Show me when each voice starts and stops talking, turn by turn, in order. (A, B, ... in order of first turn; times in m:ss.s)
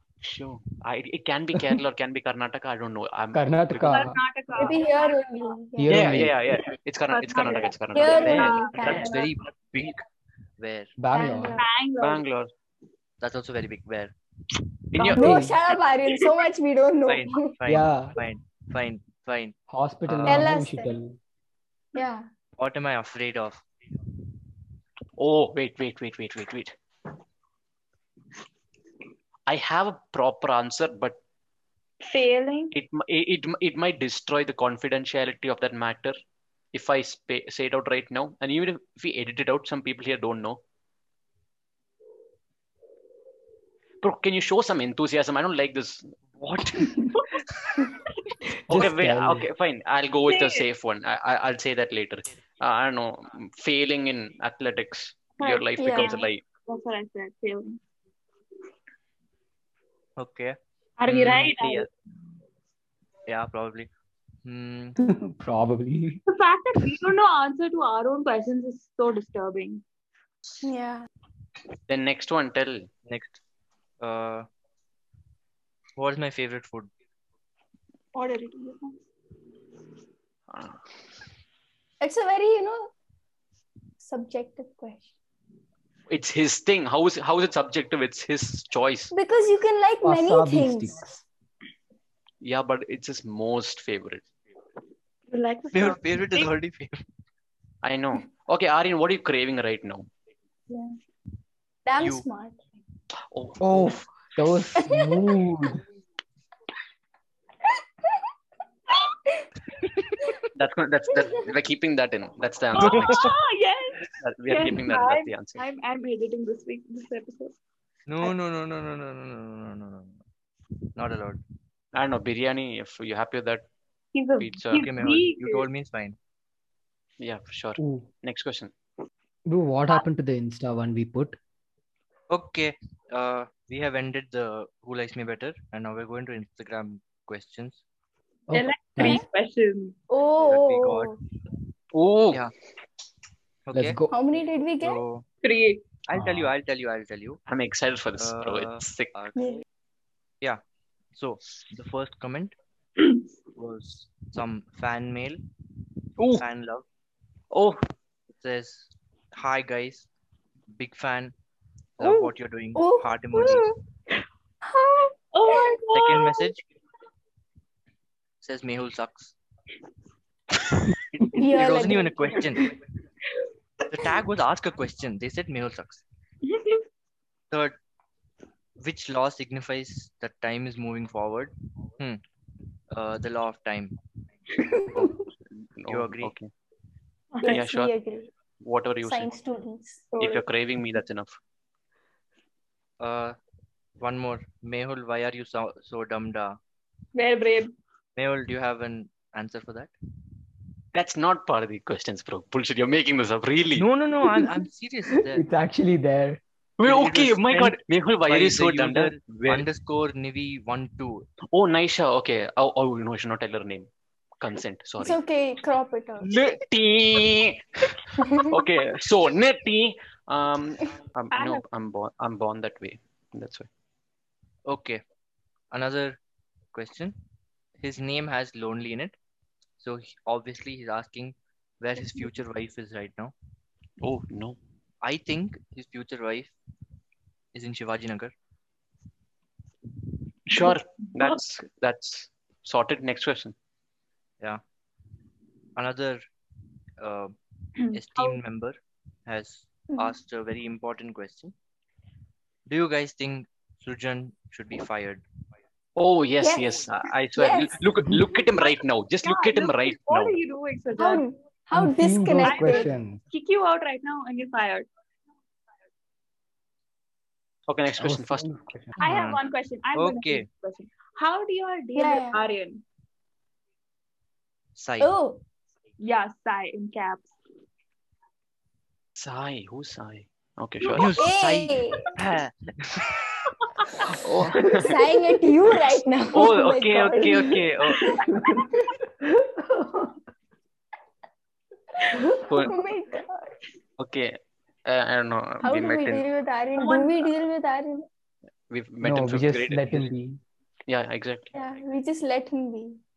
0:00.2-0:04.1 A
0:03.3-0:04.2 B
0:03.9-0:05.2 C
0:04.5-0:06.2 D
0:05.8-0:06.4 B
0:05.9-0:09.1 A
0:07.1-0:09.1 C
0:07.9-0:09.3 D
0:08.1-0:10.0 E
0:10.6-0:10.9 E
0:11.0-0:11.6 B
0:11.1-0:11.6 D
0:11.5-0:12.3 C
0:12.0-0:12.5 A
0:13.2-0:14.1 E
0:14.9-0:15.4 A
0:15.1-0:15.6 B
0:15.1-0:17.5 D
0:17.1-0:19.5 E
0:17.7-0:18.1 B
0:19.7-0:21.2 B
0:20.1-0:20.5 E
0:20.3-0:20.9 D
0:21.9-0:22.2 D
0:22.6-0:23.6 E
0:25.2-0:26.7 A
0:29.5-0:31.2 A
0:32.0-0:32.7 C
0:32.7-0:36.2 A
0:36.7-0:40.6 A
0:44.0-0:47.3 A
0:48.6-0:49.5 B
0:48.7-0:56.4 A
0:50.2-0:50.6 C
0:55.4-0:57.8 C
0:55.8-0:56.3 D
1:00.2-1:01.9 E
1:01.0-1:01.9 C
1:03.3-1:03.9 E
1:04.4-1:05.0 E
1:05.0-1:06.2 B
1:06.3-1:09.8 C
1:10.6-1:11.1 D
1:11.9-1:12.9 A
1:13.0-1:13.4 E
1:14.0-1:14.5 E
1:16.0-1:16.9 E
1:18.1-1:18.9 C
1:20.5-1:20.8 A
1:22.0-1:22.9 D
1:24.0-1:25.1 D
1:26.1-1:29.1 A
1:29.1-1:31.0 D
1:30.0-1:31.2 B
1:32.4-1:34.2 A
1:35.3-1:36.4 C
1:35.7-1:37.0 E
1:37.8-1:40.1 A
1:41.8-1:42.6 D
1:42.0-1:42.2 E
1:43.3-1:43.8 A
1:43.6-1:45.8 B
1:44.7-1:45.4 D
1:49.9-1:50.1 E
1:50.6-1:53.3 A
1:52.8-1:57.5 C
1:52.8-1:53.2 E
1:54.2-1:55.6 A
1:58.1-2:00.2 E
2:00.9-2:01.4 E
2:01.9-2:03.6 A
2:04.1-2:05.6 C
2:04.4-2:04.9 A
2:04.8-2:06.2 E
2:07.2-2:08.7 A
2:07.8-2:08.1 B
2:09.5-2:11.4 B
2:12.3-2:17.8 E
2:18.5-2:19.2 B
2:18.5-2:20.0 C
2:20.1-2:21.2 D
2:20.4-2:21.1 E
2:21.9-2:22.4 A
2:23.7-2:24.0 E
2:23.7-2:24.2 B
2:24.1-2:25.0 D
2:24.8-2:25.2 E
2:25.4-2:25.8 C
2:26.1-2:27.4 E
2:26.1-2:26.5 B
2:27.5-2:29.1 A
2:28.2-2:29.6 E
2:29.4-2:29.6 D
2:31.1-2:32.6 E
2:33.6-2:35.4 E
2:36.2-2:36.4 A
2:36.4-2:36.8 E
2:37.5-2:37.8 A
2:38.4-2:40.1 E
2:40.7-2:41.3 E
2:42.0-2:43.7 E
2:42.0-2:43.7 D
2:44.6-2:45.8 D
2:45.3-2:46.5 C
2:45.9-2:46.6 E
2:48.4-2:49.3 E
2:51.2-2:52.7 E
2:51.3-2:52.5 D
2:53.9-2:56.0 E
2:56.4-2:56.8 C
2:57.5-2:57.8 E
2:58.8-3:02.2 E
3:02.9-3:04.0 E
3:04.6-3:05.1 D
3:04.9-3:05.2 E
3:05.6-3:06.5 A
3:05.9-3:06.3 E
3:07.3-3:07.6 C
3:07.4-3:08.3 D
3:07.4-3:07.9 A
3:08.6-3:09.4 A
3:09.0-3:10.1 D
3:10.1-3:10.4 C
3:10.2-3:11.4 A
3:13.0-3:13.4 E
3:14.0-3:16.6 E
3:17.2-3:17.7 C
3:18.2-3:19.9 E
3:20.9-3:23.8 A
3:23.7-3:25.4 E
3:25.3-3:26.4 B
3:26.8-3:29.6 A
3:26.8-3:31.3 E
3:31.5-3:33.9 A
3:34.4-3:35.2 A
3:35.0-3:36.3 D
3:36.2-3:43.7 A
3:38.2-3:38.5 D
3:41.3-3:41.6 C
3:44.6-3:45.0 E
3:45.7-3:46.2 E
3:46.7-3:47.2 E
3:47.8-3:49.2 E
3:49.8-3:53.3 E
3:54.0-3:54.6 A
3:55.0-3:56.5 E
3:57.5-3:58.3 E
4:00.5-4:03.5 A
4:00.5-4:01.4 C
4:05.8-4:06.2 E
4:07.0-4:07.3 E
4:07.9-4:08.4 C
4:07.9-4:11.5 E
4:12.7-4:15.2 E
4:16.0-4:20.4 A
4:16.4-4:17.8 D
4:18.4-4:21.2 C
4:20.9-4:22.9 D
4:21.7-4:23.2 B
4:22.4-4:24.9 C
4:27.7-4:28.5 A
4:28.0-4:29.0 B
4:29.0-4:32.8 C
4:29.0-4:29.4 E
4:29.9-4:30.4 E
4:32.0-4:32.4 D
4:34.8-4:35.2 E
4:35.0-4:35.4 D
4:36.0-4:37.3 C
4:39.2-4:41.2 A
4:41.0-4:43.2 E
4:41.1-4:42.0 D
4:43.8-4:44.1 C
4:44.0-4:44.9 A
4:44.8-4:49.0 D
4:46.3-4:48.0 A
4:48.3-4:48.6 B
4:49.2-4:50.1 B
4:52.0-4:53.4 D
4:52.4-4:52.7 A
4:54.0-4:56.2 A
4:55.6-4:58.0 D
4:56.7-4:57.4 C
4:58.7-5:00.1 A
4:59.0-5:00.4 B
5:00.9-5:01.5 A
5:01.5-5:03.0 D